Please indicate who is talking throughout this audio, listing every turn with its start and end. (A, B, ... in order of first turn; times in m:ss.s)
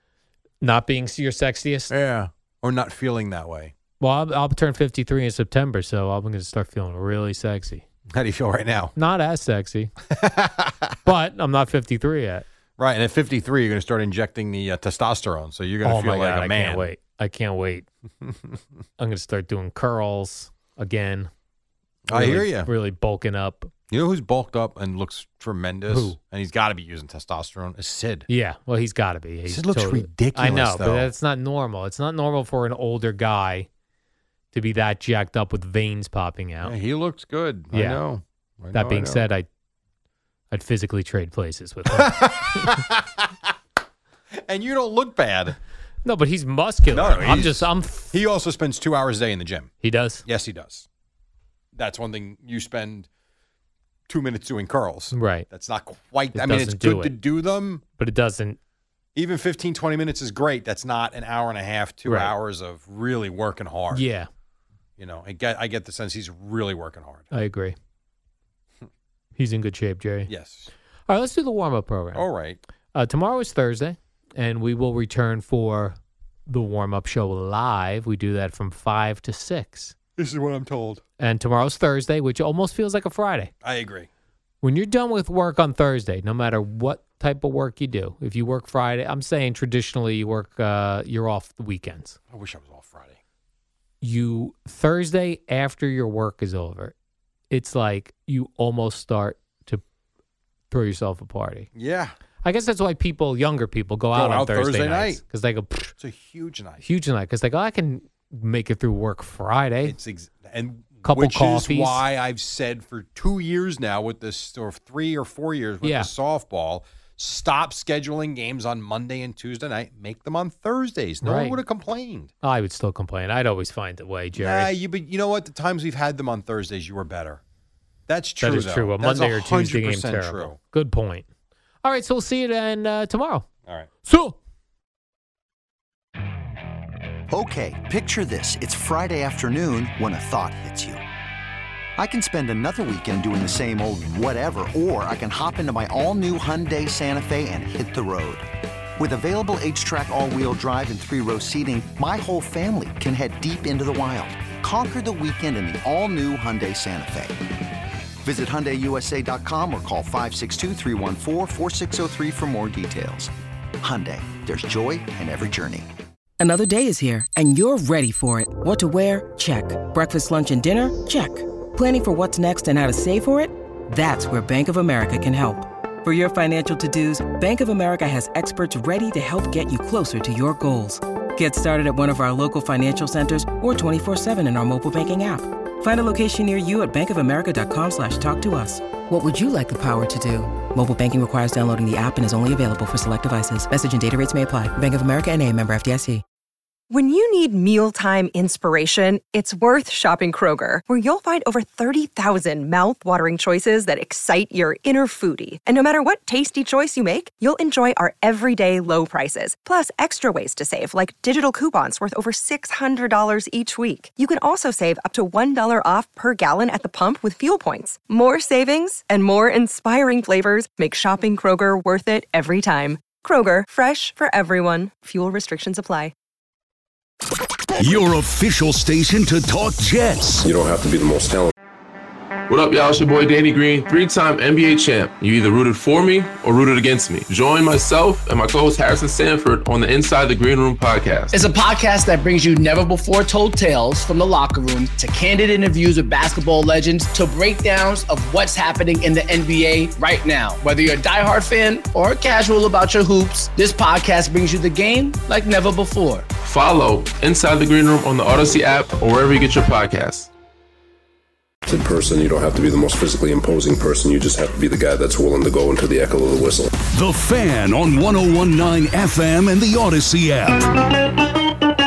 0:00.6-0:01.9 A
0:01.9-0:03.7 B
0:04.0-0:07.8 A
0:08.1-0:08.9 B
0:09.0-0:09.9 A
0:10.1-0:11.0 B
0:11.0-0:12.5 A
0:12.8-0:16.9 B
0:15.8-0:17.9 A
0:19.0-0:21.3 A
0:22.1-0:22.7 B
0:22.1-0:23.7 A
0:23.9-0:28.3 B
0:25.9-0:26.2 A
0:28.3-0:33.7 A
0:29.5-0:31.1 B
0:34.5-0:36.8 A
0:36.6-0:39.2 B
0:37.7-0:38.0 A
0:38.7-0:39.5 A
0:40.5-0:42.8 A
0:41.9-0:43.3 B
0:44.4-0:45.6 B
0:46.0-0:48.2 A
0:46.9-0:49.7 B
0:49.8-0:50.2 A
0:50.2-0:50.9 B
0:51.7-0:53.1 B
0:54.1-0:57.8 B
0:55.1-0:55.5 A
0:56.3-0:57.2 A
0:58.0-0:58.6 A
0:59.2-1:04.0 B
1:02.0-1:02.3 A
1:03.9-1:04.3 A
1:05.0-1:07.3 B
1:07.3-1:07.8 A
1:09.4-1:10.3 A
1:10.3-1:10.7 B
1:11.1-1:12.3 A
1:12.1-1:12.6 B
1:12.9-1:16.0 A
1:16.5-1:20.0 A
1:20.2-1:21.0 B
1:21.2-1:23.5 A
1:23.6-1:24.1 B
1:24.6-1:32.2 A
1:32.3-1:33.2 B
1:34.0-1:36.9 A
1:37.5-1:39.8 A
1:40.7-1:41.7 A
1:41.8-1:42.2 B
1:42.4-1:45.9 A
1:44.1-1:45.2 B
1:46.0-1:46.8 B
1:46.8-1:50.0 A
1:49.8-2:02.3 B
1:51.0-1:52.0 A
1:55.8-1:56.1 A
2:01.2-2:01.6 A
2:02.4-2:04.7 A
2:04.4-2:07.4 B
2:08.1-2:10.6 B
2:08.4-2:11.3 A
2:11.8-2:13.5 A
2:14.0-2:14.4 A
2:17.3-2:21.0 C
2:22.0-2:28.5 C
2:29.0-2:37.4 C
2:38.2-2:45.9 C
2:46.4-3:16.2 D
3:16.9-3:46.1 E
3:47.8-3:50.5 F
3:50.4-3:51.5 G
3:52.5-4:01.4 H
4:01.3-4:16.3 I
4:16.4-4:20.3 H
4:21.7-4:26.7 G
4:26.8-4:30.7 F